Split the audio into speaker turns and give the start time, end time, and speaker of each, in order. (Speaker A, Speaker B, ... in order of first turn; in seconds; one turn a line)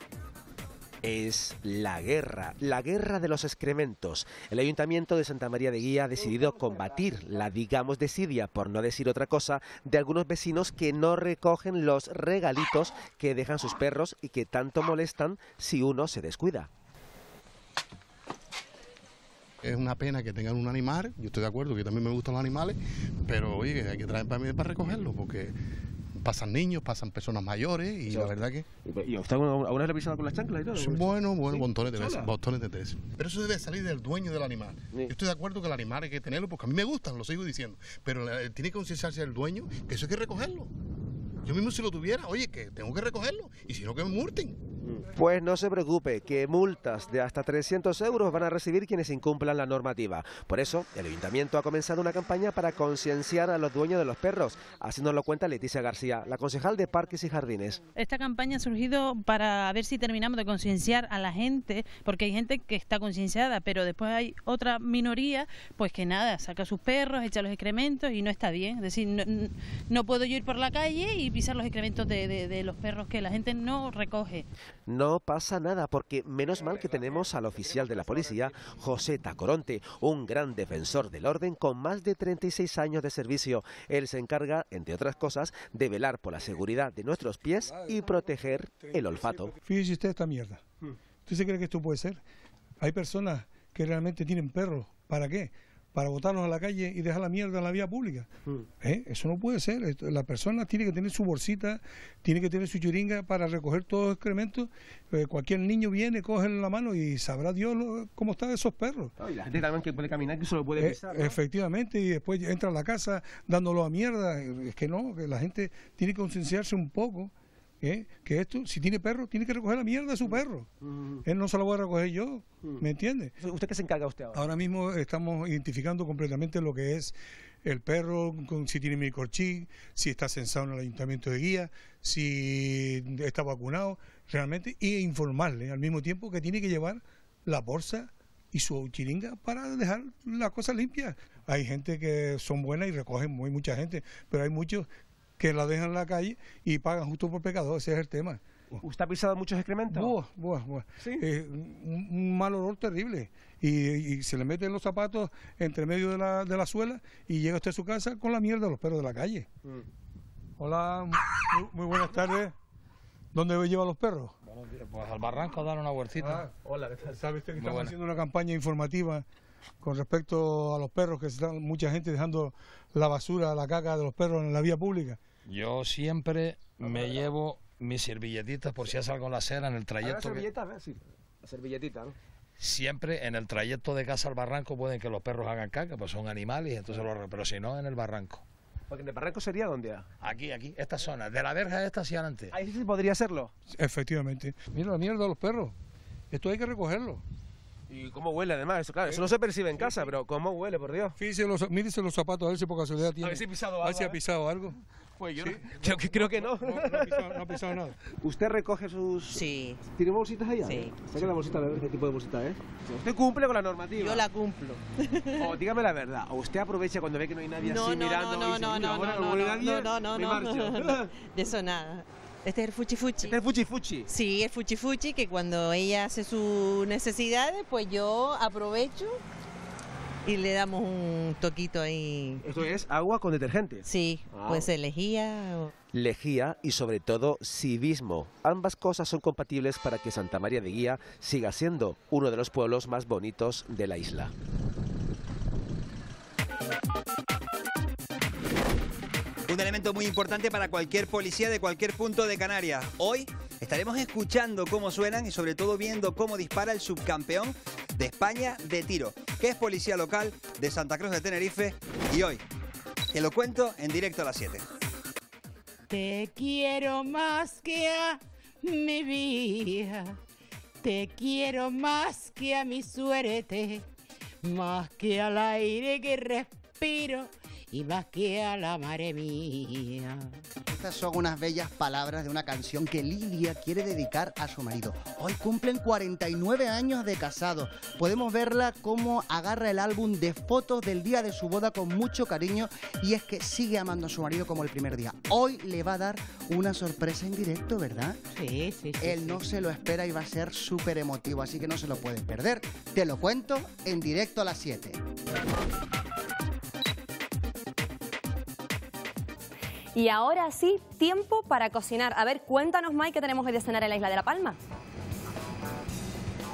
Speaker A: 1.0-16.7
Speaker B: 19.6-25.6
Speaker B: 26.1-28.6
Speaker A: 28.1-32.3
Speaker B: 30.8-40.7
Speaker B: 41.4-44.6
Speaker A: 44.8-57.8
Speaker C: 58.0-74.5
Speaker A: 74.9-89.5
Speaker D: 87.7-88.1
Speaker D: 88.8-90.6
Speaker D: 91.3-92.2
Speaker D: 92.8-98.3
Speaker D: 98.8-109.1
Speaker A: 109.2-111.3
Speaker D: 110.8-120.7
Speaker A: 120.2-121.2
Speaker D: 121.3-123.3
Speaker A: 123.4-124.4
Speaker D: 124.3-144.9
Speaker D: 145.4-148.4
Speaker A: 148.8-150.2
Speaker D: 149.9-159.5
Speaker D: 160.6-162.5
Speaker D: 163.3-164.3
Speaker E: 164.7-166.5
Speaker D: 166.2-166.5
Speaker A: 166.6-167.2
Speaker D: 167.2-169.2
Speaker E: 167.6-167.9
Speaker D: 169.8-175.2
Speaker E: 175.5-180.5
Speaker A: 176.8-177.2
Speaker A: 180.0-182.2
Speaker E: 182.6-188.4
Speaker A: 188.9-190.1
Speaker E: 190.2-192.5
Speaker A: 192.5-193.5
Speaker D: 193.7-195.8
Speaker D: 196.3-197.2
Speaker A: 197.9-201.2
Speaker D: 201.2-204.8
Speaker A: 203.2-204.2
Speaker A: 205.2-207.4
Speaker D: 205.4-208.0
Speaker A: 208.2-214.3
Speaker F: 209.3-209.8
Speaker F: 210.7-210.9
Speaker F: 214.0-215.5
Speaker A: 215.4-221.1
Speaker F: 217.6-223.4
Speaker A: 223.2-224.1
Speaker F: 224.1-229.2
Speaker F: 230.2-232.4
Speaker A: 232.4-234.7
Speaker F: 233.9-235.7
Speaker A: 235.9-244.3
Speaker G: 249.5-262.4
Speaker G: 263.1-264.6
Speaker H: 265.9-270.2
Speaker H: 270.8-273.9
Speaker H: 274.4-280.4
Speaker I: 280.8-298.2
Speaker H: 298.3-299.5
Speaker I: 299.0-305.0
Speaker J: 309.9-314.6